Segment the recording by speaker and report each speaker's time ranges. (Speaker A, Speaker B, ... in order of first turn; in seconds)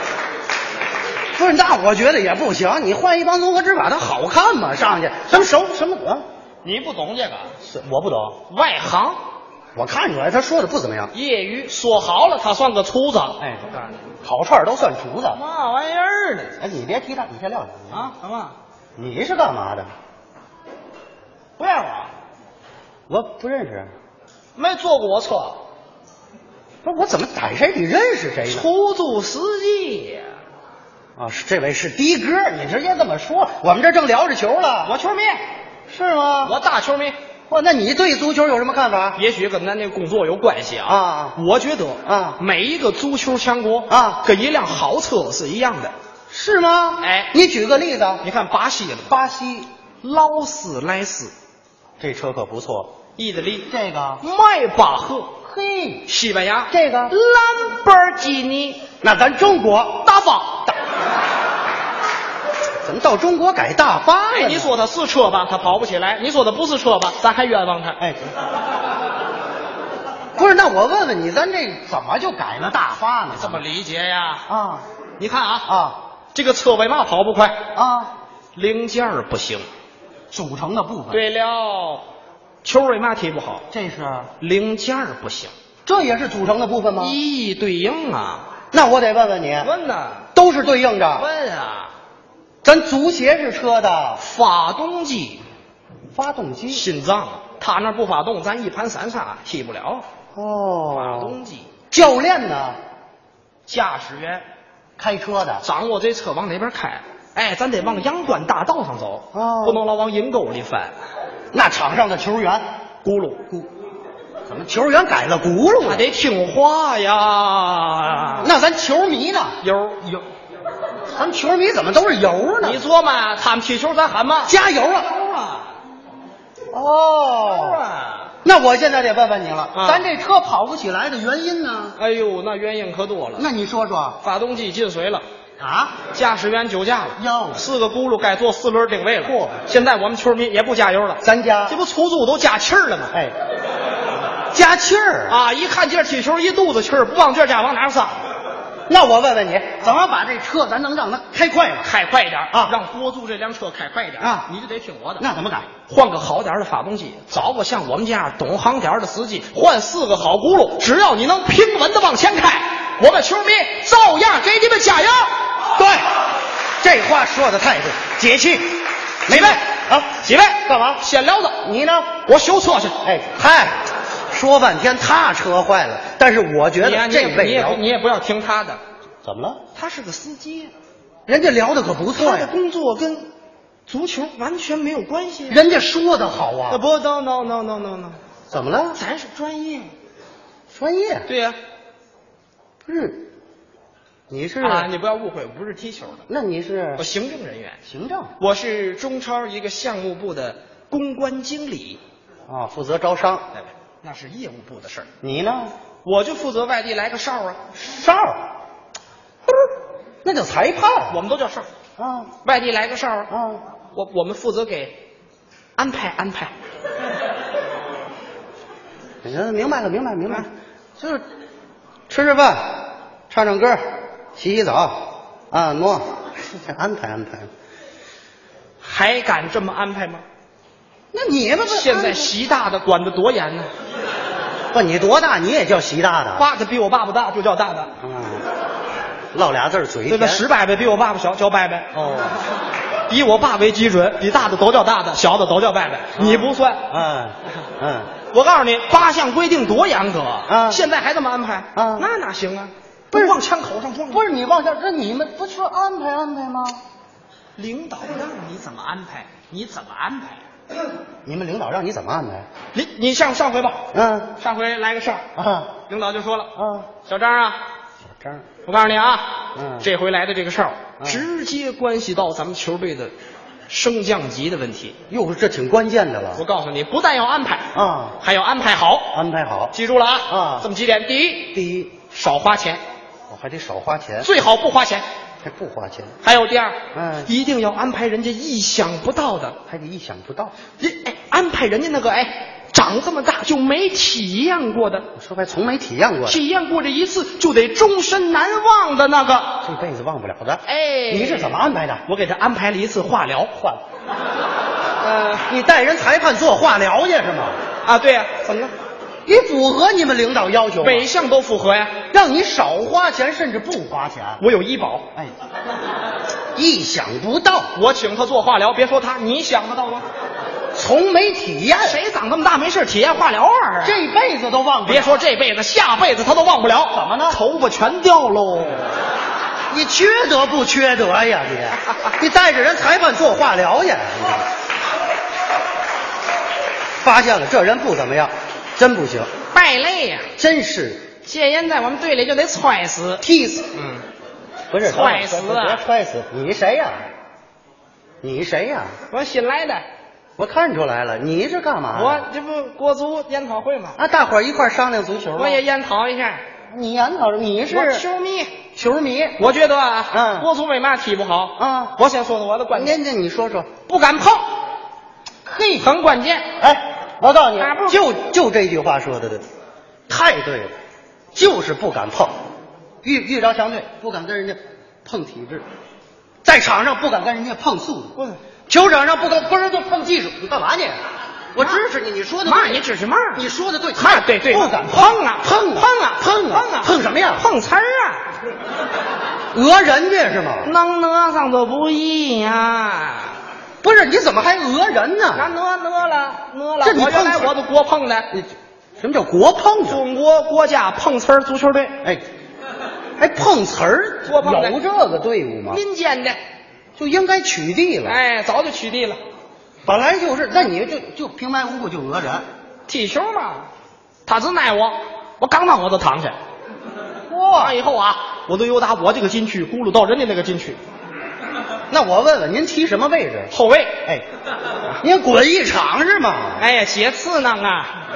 Speaker A: 1.3-6.2, 7.6-8.4, 9.8-11.1, 13.4-13.7, 14.2-15.4, 16.6-18.1, 19.0-19.9, 23.1-23.9, 26.8-28.7, 31.2-34.9, 35.9-36.5, 37.5-39.2, 40.8-41.4, 42.0-42.4, 43.9-44.2, 46.3-48.2, 49.1-49.7, 52.0-52.9, 53.7-54.2, 55.4-56.1, 56.7-57.1, 59.0-60.0, 62.8-64.8, 70.3-73.6, 74.5-74.8, 75.6-76.0, 77.7-78.1, 80.3-81.2, 83.7-84.3, 85.8-87.2, 88.7-89.7, 90.3-91.3, 92.6-94.2, 96.1-96.8, 100.3-101.4, 101.9-102.8, 105.0-105.6, 109.3-109.8, 111.5-112.6, 114.5-116.1, 118.4-119.6, 121.1-122.8, 124.4-125.1, 126.7-127.8, 128.4-132.0, 133.3-134.2, 135.6-135.9, 137.2-137.6, 139.2-139.6, 141.2-141.8, 144.5-145.4, 148.9-151.9, 154.2-154.5, 155.2-155.7, 165.8-166.1, 166.8-170.1, 170.6-171.0, 171.6-172.1, 173.0-173.8, 174.3-177.8, 179.2-179.6, 181.3-182.5, 185.5-186.8, 188.5-189.0, 190.7-191.3, 192.8-193.3, 194.3-194.9, 196.3-197.0, 197.9-198.3, 202.5-203.4, 205.2-205.7, 207.7-208.4, 210.2-211.2, 212.0-212.3, 213.3-213.6, 219.2-221.2, 222.1-223.8, 224.3-227.5, 231.1-232.3, 234.7-236.5, 238.0-238.4, 239.3-240.4, 241.9-242.4, 246.2-248.1, 250.5-250.8, 251.7-252.1, 253.1-253.4, 254.1-256.8, 261.2-262.4, 263.9-264.3, 265.4-265.7, 266.6-266.9, 268.2-268.4, 269.5-269.9, 271.0-271.2, 275.1-276.4, 277.7-278.2, 279.1-279.7, 280.3-280.7, 281.5-281.9, 283.3-284.3, 285.4-286.1, 286.9-287.3, 289.7-290.5, 295.1-296.4, 299.6-302.0, 305.5-307.6, 309.2-311.1, 312.1-314.4, 316.5-317.7, 320.7-322.0, 323.8-325.2, 326.9-327.4, 329.7-334.4, 337.0-339.3, 340.4-341.1, 343.2-343.7, 344.7-347.0, 348.2-348.9, 350.4-352.2, 353.9-355.6, 356.7-358.1, 358.7-359.4, 360.1-360.5, 361.6-361.9, 362.7-363.7, 365.4-365.9, 366.6-369.4, 370.1-370.7, 371.3-372.3, 373.0-375.6, 376.4-378.1, 378.7-381.0, 381.5-382.8, 383.3-387.4, 389.5-390.7, 393.8-395.5, 396.8-397.5, 398.3-400.0, 403.2-405.8, 407.0-408.2, 409.8-412.4, 417.3-417.8, 421.9-423.5, 425.0-426.6
Speaker B: 6.6-7.5, 8.5-9.2, 11.1-13.9, 15.3-16.6, 17.9-18.6, 21.6-22.1, 24.6-25.6, 28.5-30.3, 34.8-35.4, 36.4-37.1, 39.1-45.9, 47.0-47.3, 48.2-49.2, 50.0-51.3, 53.1-53.7, 54.2-55.3, 56.1-58.8, 60.0-60.7, 64.3-68.0, 73.3-74.5, 75.2-75.7, 76.3-77.6, 78.5-79.7, 81.1-82.0, 82.6-83.6, 84.4-85.5, 87.0-88.5, 89.6-90.2, 91.1-91.9, 94.2-95.4, 96.7-100.0, 100.9-101.7, 103.7-104.4, 105.6-110.9, 113.0-113.6, 115.8-118.5, 119.6-120.2, 122.6-125.7, 127.5-128.3, 129.7-130.1, 132.0-133.5, 134.2-135.2, 136.1-143.1, 145.3-148.1, 151.8-155.3, 155.9-165.3, 169.3-169.6, 170.2-171.6, 172.2-173.0, 176.8-178.8, 179.7-180.7, 182.2-183.3, 183.9-185.7, 186.7-188.2, 188.9-189.9, 191.2-191.6, 194.6-196.2, 197.0-197.8, 198.4-202.0, 203.5-205.1, 206.0-207.6, 211.1-211.7, 212.4-213.3, 213.9-215.0, 215.8-216.5, 228.8-230.2, 231.6-233.7, 236.3-237.9, 240.1-241.9, 243.1-246.8, 248.3-254.2, 257.6-260.4, 262.7-263.8, 264.4-265.2, 265.9-267.6, 268.6-273.1, 273.7-274.9, 276.4-277.7, 278.2-279.1, 279.7-281.5, 282.1-282.8, 284.2-285.0, 286.2-289.6, 290.8-295.0, 296.2-299.6, 300.6-303.5, 305.0-305.4, 307.8-308.7, 310.8-312.0, 314.4-315.0, 317.7-320.0, 321.8-324.0, 324.9-329.0, 339.5-340.3, 341.2-344.0, 344.8-345.8, 349.1-349.8, 351.9-354.0, 355.4-356.4, 357.7-358.6, 359.4-363.0, 363.9-364.4, 365.8-366.4, 367.6-368.0, 382.4-383.4, 384.0-388.2, 390.6-393.4, 395.3-398.3, 399.9-402.0, 404.2-404.8, 405.7-406.4, 408.1-409.2, 412.9-413.7, 414.2-416.4, 417.6-420.8, 423.5-424.0, 426.6-427.9